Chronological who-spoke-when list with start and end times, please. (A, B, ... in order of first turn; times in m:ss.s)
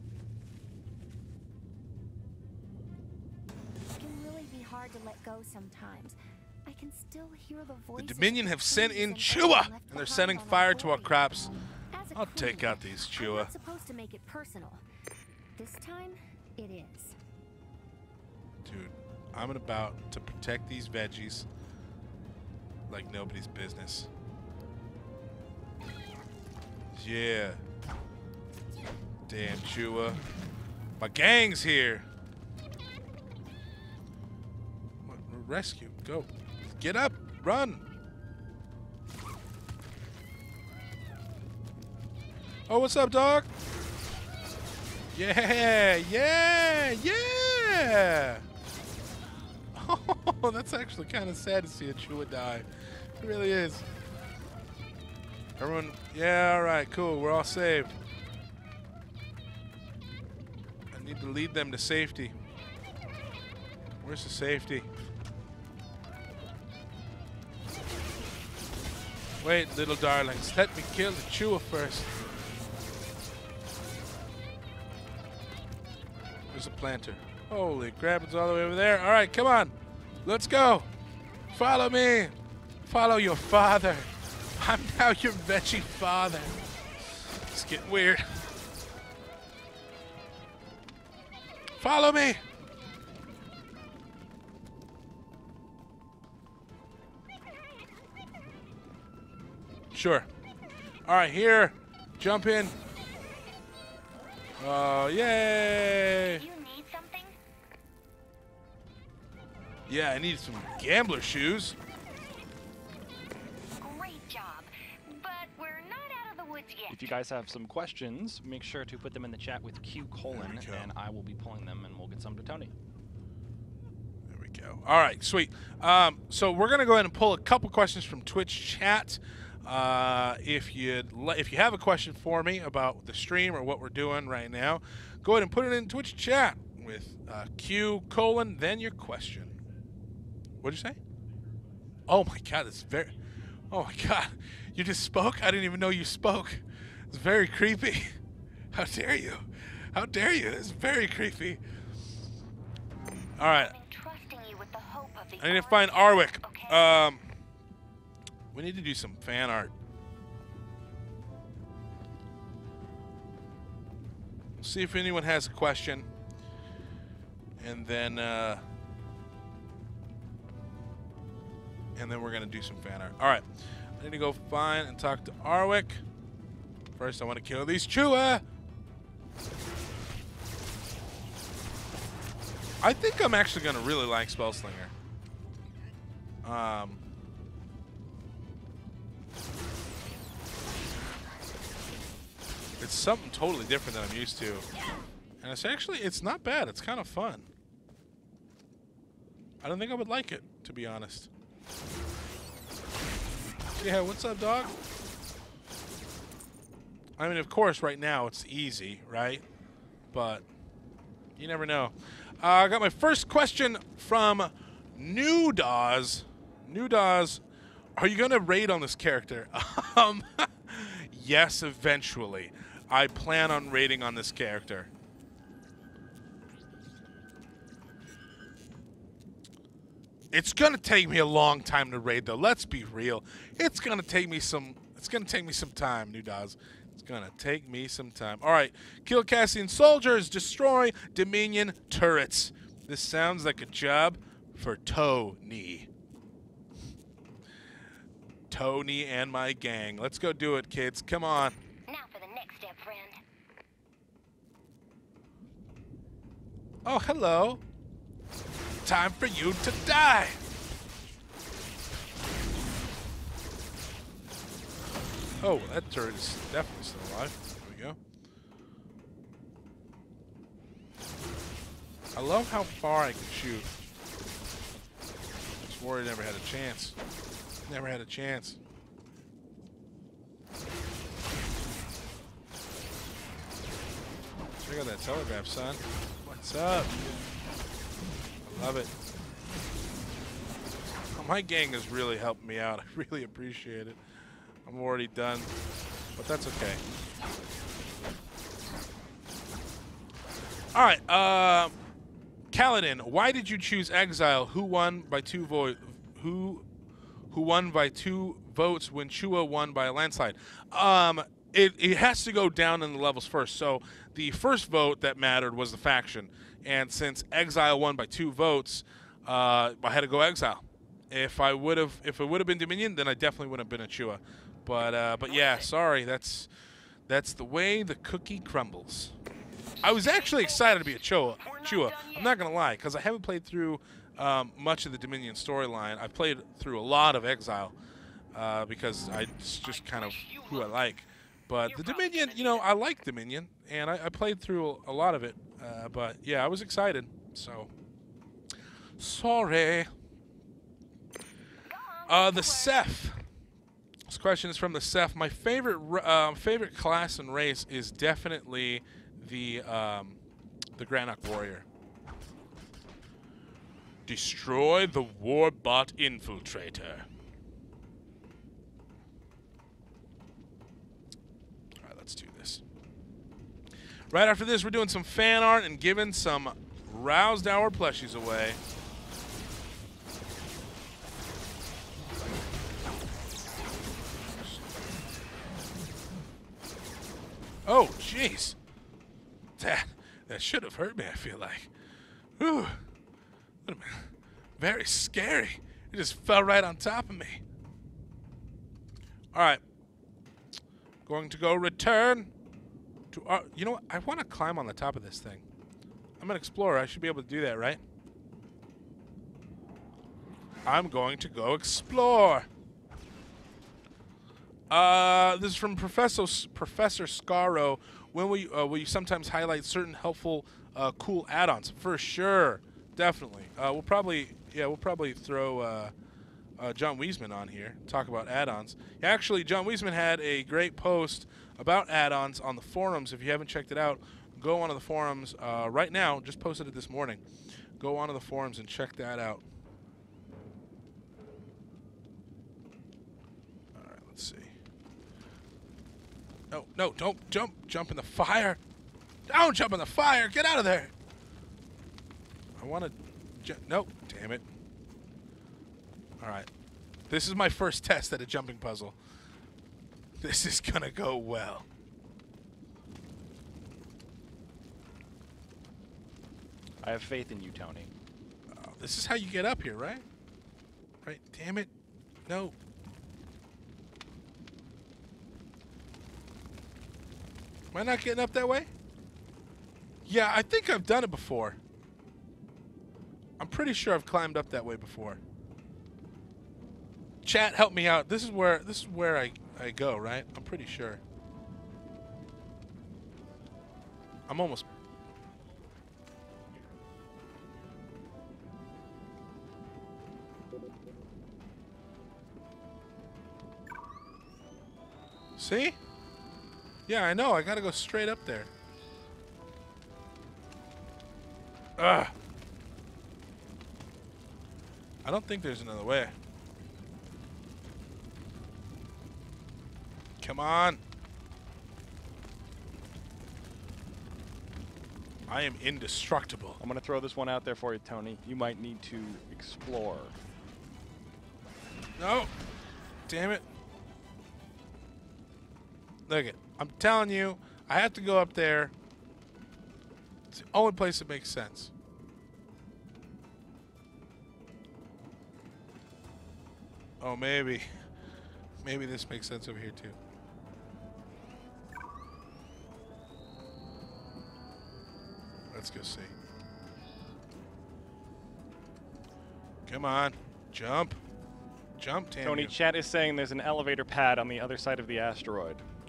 0:04.0-0:11.2 A
0:08.0-0:11.5 B
0:11.9-0:14.8 A
0:12.1-0:13.5 B
0:15.6-0:17.2 A
0:18.6-0:21.5 B
0:22.9-0:24.1 B
0:27.0-0:27.6 B
0:29.3-0:30.2 B
0:31.0-0:32.1 B
0:35.0-0:37.8 B
0:42.7-0:43.5 B
0:45.1-0:48.4 B
0:49.7-0:52.7 B
0:53.2-0:53.8 B
0:55.6-0:58.0 B
1:00.9-1:02.3 B
1:04.0-1:04.9 B
1:09.4-1:12.1 B
1:16.5-1:19.7 B
1:20.2-1:20.9 B
1:21.5-1:22.3 B
1:22.9-1:26.6 B
1:27.5-1:28.5 B
1:31.8-1:32.4 B
1:39.9-1:40.3 B
1:41.0-1:42.8 B
1:44.6-1:46.4 B
1:46.2-1:47.4 C
1:49.9-1:51.8 B
1:53.8-1:57.2 C
1:56.9-2:02.7 D
2:00.3-2:00.9 B
2:04.3-2:19.6 B
2:20.6-2:21.0 B
2:22.1-2:23.1 B
2:23.7-2:28.2 B
2:28.7-2:31.6 B
2:33.4-2:33.7 B
2:33.4-2:37.1 C
2:35.4-2:37.3 B
2:38.5-2:39.7 B
2:44.6-2:46.1 B
2:47.6-2:48.6 B
2:52.0-2:53.5 B
2:54.0-2:56.0 B
2:57.0-2:58.4 B
3:02.8-3:04.9 B
3:06.4-3:07.0 B
3:12.8-3:14.7 B
3:15.4-3:17.5 B
3:19.6-3:21.3 B
3:23.8-3:24.7 B
3:27.2-3:29.4 B
3:30.1-3:30.5 B
3:31.4-3:37.4 B
3:38.0-3:44.9 B
3:50.3-4:05.9 B
4:08.5-4:11.6 B
4:11.9-4:13.2 C
4:16.8-4:17.6 B
4:18.8-4:20.4 B
4:25.4-4:28.0 B
4:32.2-4:33.7 B
4:35.6-4:37.0 B
4:37.7-4:38.6 B
4:44.6-4:47.0 B
4:48.4-4:48.9 B
4:51.1-4:54.0 B
4:54.6-4:55.5 B
4:56.2-4:56.8 B
5:00.7-5:01.7 B
5:02.5-5:06.6 B
5:07.3-5:26.5 B
5:27.1-5:29.1 B
5:29.8-5:37.8 B
5:29.9-5:30.4 C
5:38.3-5:47.7 B
5:49.0-5:49.9 B
5:51.7-5:52.9 C
5:52.1-5:53.2 B
5:54.1-6:00.2 B
6:00.8-6:01.7 B
6:04.1-6:07.1 B
6:11.8-6:12.6 B
6:14.1-6:18.6 B
6:27.7-6:28.6 B
6:29.6-6:31.7 B
6:32.4-6:32.8 B
6:33.6-6:37.4 B
6:39.3-6:39.6 B
6:41.1-6:42.3 B
6:43.1-6:45.4 B
6:46.2-6:47.8 B
6:50.7-6:52.5 B
6:54.7-7:05.9 B
7:06.6-7:17.2 B
7:17.8-7:19.4 B
7:23.8-7:24.5 B
7:26.5-7:28.6 B
7:29.3-7:30.9 B
7:32.6-7:34.4 B
7:36.2-7:36.5 B
7:37.1-7:39.0 B
7:40.2-7:41.7 B
7:46.8-7:47.9 D
7:48.5-7:50.0 B
7:51.0-7:51.7 B
7:52.3-7:52.6 B
7:57.7-7:58.7 B
8:00.1-8:01.6 B
8:03.4-8:05.2 B
8:07.2-8:11.0 B
8:14.3-8:14.7 B
8:25.4-8:25.8 B
8:26.9-8:28.5 B
8:31.8-8:32.1 B
8:35.0-8:36.1 B
8:40.2-8:40.8 B
8:45.3-8:46.6 B
8:46.6-8:50.2 D
8:52.0-8:52.3 B
8:53.1-8:53.4 B
8:56.1-8:58.7 B
9:00.3-9:01.7 B
9:07.0-9:07.7 B
9:08.6-9:10.0 B
9:15.5-9:16.1 B
9:19.7-9:21.0 B
9:21.8-9:22.5 B
9:22.2-9:25.6 D